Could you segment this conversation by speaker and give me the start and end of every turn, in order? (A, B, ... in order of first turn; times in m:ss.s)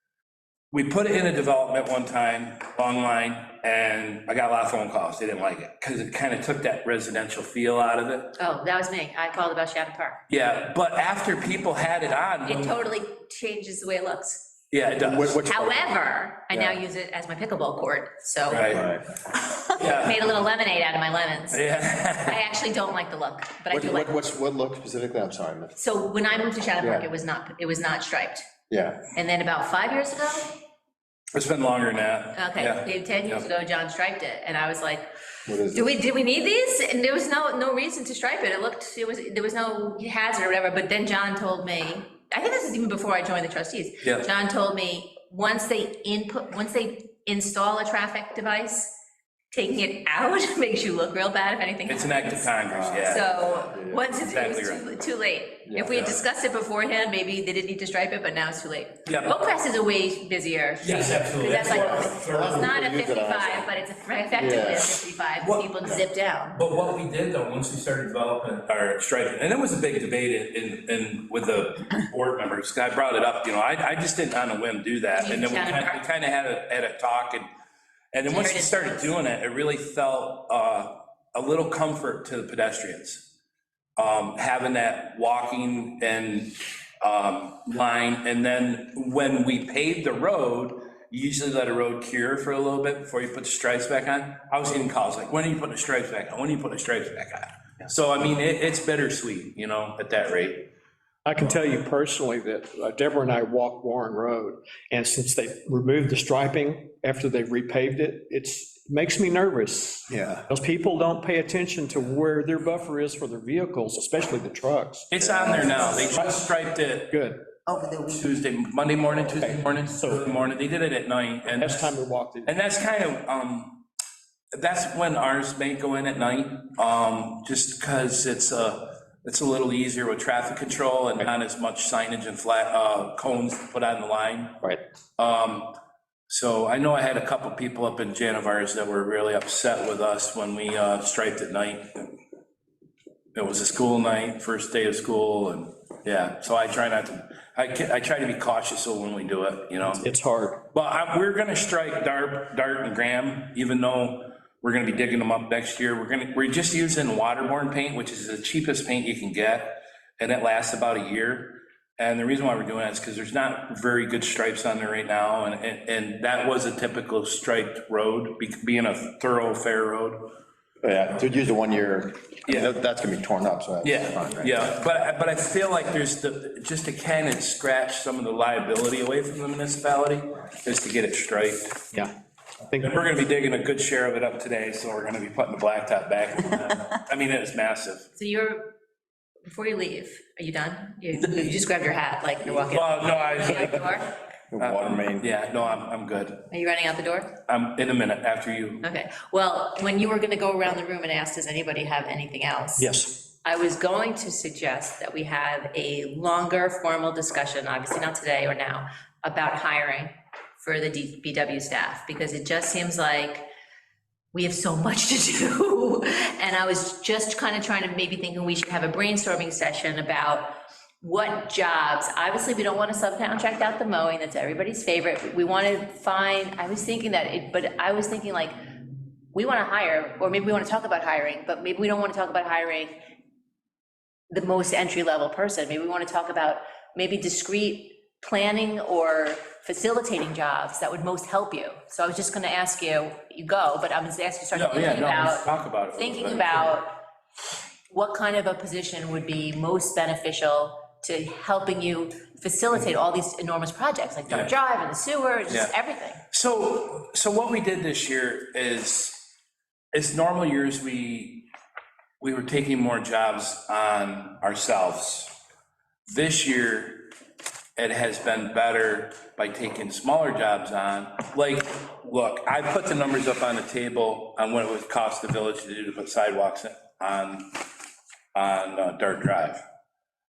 0:00.7-0:08.4 A
0:08.4-0:10.2 B
0:10.3-0:12.8 A
0:12.4-0:14.5 B
0:14.7-0:15.5 A
0:15.0-0:16.0 C
0:15.4-0:18.8 B
0:16.5-0:16.8 C
0:18.5-0:18.9 A
0:18.7-0:19.1 C
0:19.7-0:24.2 B
0:19.7-0:20.2 A
0:21.5-0:22.4 A
0:23.7-0:25.8 C
0:25.8-0:28.4 B
0:26.8-0:27.1 C
0:28.7-0:29.0 C
0:29.1-0:30.6 B
0:31.3-0:33.4 A
0:32.3-0:35.1 B
0:35.4-0:35.9 C
0:35.6-0:48.9 B
0:44.0-0:44.3 A
0:49.5-1:06.6 B
0:51.8-0:54.9 A
0:52.7-0:54.1 C
0:55.6-0:56.1 C
0:55.9-0:56.2 A
0:59.0-0:59.4 A
1:00.8-1:02.7 A
1:01.6-1:03.7 C
1:04.3-1:05.0 C
1:05.4-1:05.7 A
1:06.5-1:17.5 A
1:15.2-1:16.0 B
1:18.1-1:23.3 A
1:18.2-1:19.1 B
1:24.0-1:40.7 A
1:41.2-1:55.1 D
1:50.1-1:50.4 C
1:55.1-1:57.2 A
1:55.2-1:56.2 C
1:55.9-1:56.4 D
1:57.1-1:57.4 D
1:57.9-2:03.8 A
1:59.4-2:00.3 D
2:01.5-2:02.5 D
2:04.5-2:14.7 A
2:15.2-2:15.7 A
2:16.3-2:22.1 A
2:23.3-2:30.0 A
2:30.0-2:30.6 D
2:30.7-2:50.3 A
2:50.8-2:54.7 C
2:53.8-3:01.9 A
3:02.7-3:02.9 D
3:02.8-3:08.1 A
3:08.2-3:08.7 B
3:09.5-3:14.2 B
3:12.4-3:14.0 A
3:14.5-3:15.3 C
3:14.6-3:16.5 A
3:16.5-3:17.4 B
3:17.5-3:18.8 A
3:18.8-3:22.9 B
3:22.8-3:23.1 D
3:23.4-3:33.4 B
3:34.3-3:48.6 B
3:49.3-3:53.0 B
3:54.3-4:07.0 B
4:04.5-4:06.7 A
4:07.9-4:16.2 B
4:14.3-4:14.5 A
4:15.5-4:15.7 A
4:16.3-4:19.3 A
4:19.9-4:21.5 A
4:22.2-4:25.3 A
4:26.1-4:27.1 A
4:27.8-4:37.6 A
4:38.3-4:39.6 A